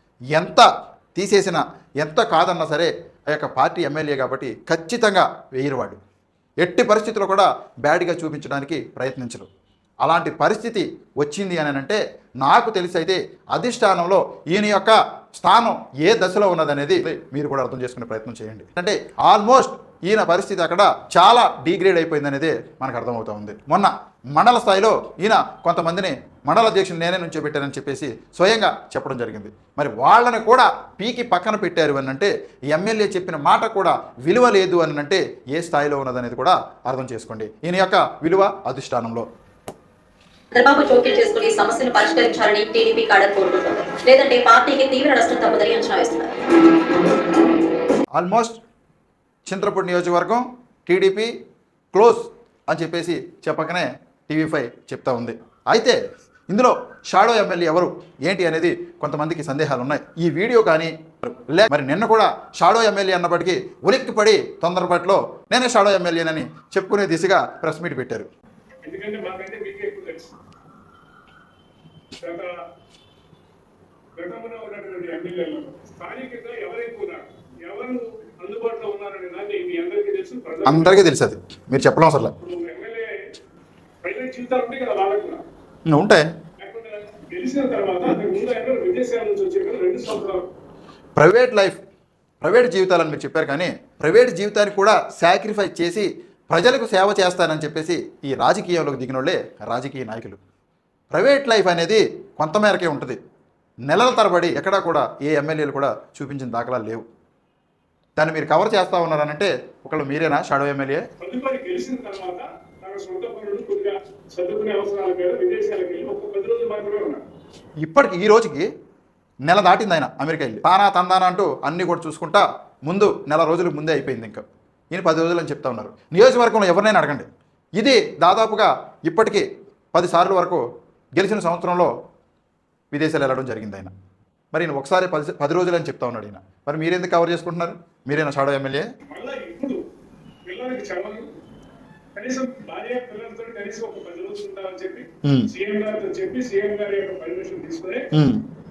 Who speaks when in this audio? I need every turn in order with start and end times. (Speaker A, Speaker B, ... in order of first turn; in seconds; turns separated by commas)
Speaker A: 0.3-6.0, Speaker A: 6.6-9.5, Speaker A: 10.0-39.3, Speaker B: 40.5-46.3, Speaker A: 48.1-48.6, Speaker A: 49.5-51.3, Speaker A: 51.9-56.0, Speaker A: 56.5-68.3, Speaker C: 68.8-70.3, Speaker C: 72.2-72.5, Speaker C: 74.2-81.0, Speaker A: 80.7-82.3, Speaker C: 82.4-83.1, Speaker C: 84.0-85.4, Speaker A: 85.9-86.3, Speaker C: 86.6-90.5, Speaker A: 91.2-91.8, Speaker A: 92.4-100.4, Speaker A: 101.1-103.2, Speaker A: 103.8-107.0, Speaker A: 108.2-111.0, Speaker C: 111.2-117.2, Speaker A: 117.8-118.7, Speaker A: 119.5-130.6, Speaker A: 131.2-131.9, Speaker A: 132.9-133.9, Speaker A: 134.5-138.9, Speaker C: 139.1-139.8, Speaker C: 140.4-141.2, Speaker C: 142.2-148.1, Speaker A: 145.2-145.5, Speaker A: 148.1-148.4